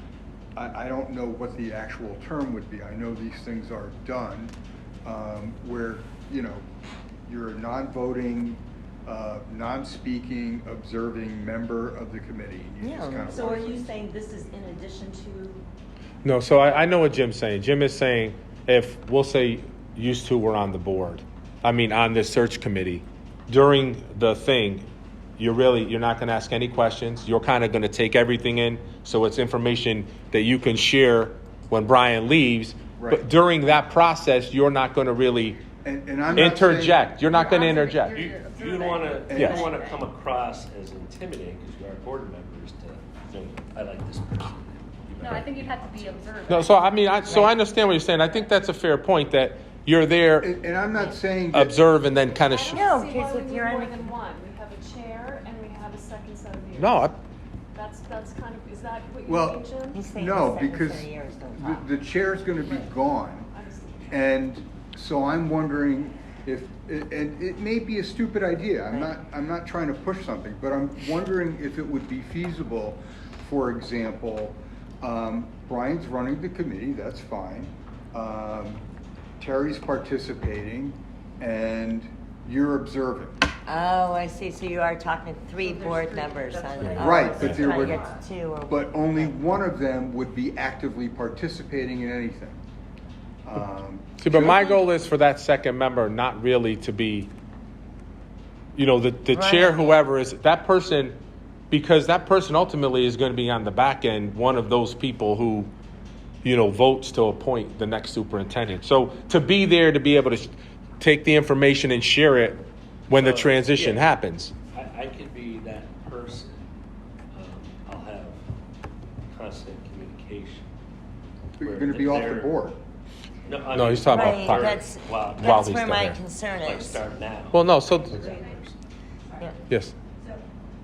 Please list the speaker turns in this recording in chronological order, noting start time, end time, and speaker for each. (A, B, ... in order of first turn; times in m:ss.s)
0:00.5-0:06.6 A
0:07.3-0:13.9 A
0:12.8-0:13.3 B
0:13.3-0:15.6 C
0:16.2-0:24.8 D
0:25.4-0:35.6 D
0:33.0-0:33.2 A
0:35.8-0:37.1 A
0:36.3-0:38.2 D
0:37.3-0:40.0 E
0:38.1-0:46.1 F
0:39.3-0:39.6 A
0:39.3-0:39.6 D
0:45.2-0:47.3 E
0:46.5-0:50.5 D
0:50.4-0:51.8 A
0:51.5-0:52.9 D
0:52.5-0:57.0 G
0:52.7-0:54.1 B
0:54.1-0:54.5 E
0:56.8-0:57.2 D
0:57.8-1:00.0 G
0:59.1-0:59.9 E
0:59.2-1:03.5 A
0:59.9-1:01.8 B
1:03.5-1:04.1 G
1:04.1-1:18.8 A
1:19.4-1:23.4 A
1:23.7-1:29.4 B
1:25.6-1:28.2 C
1:26.9-1:28.0 A
1:28.7-1:32.6 A
1:33.4-1:34.9 A
1:34.2-1:37.3 D
1:38.7-1:41.2 D
1:39.3-1:40.0 B
1:41.7-1:45.7 D
1:46.4-1:54.5 D
1:53.1-1:54.0 F
1:54.7-1:56.6 F
1:57.3-1:58.4 F
1:59.3-2:00.7 F
2:01.6-2:02.8 A
2:01.6-2:02.5 F
2:03.4-2:05.9 F
2:03.7-2:06.2 D
2:04.0-2:07.0 B
2:06.6-2:08.8 F
2:07.5-2:08.3 D
2:08.2-2:08.6 C
2:09.2-2:09.6 C
2:09.7-2:09.9 D
2:10.1-2:10.4 C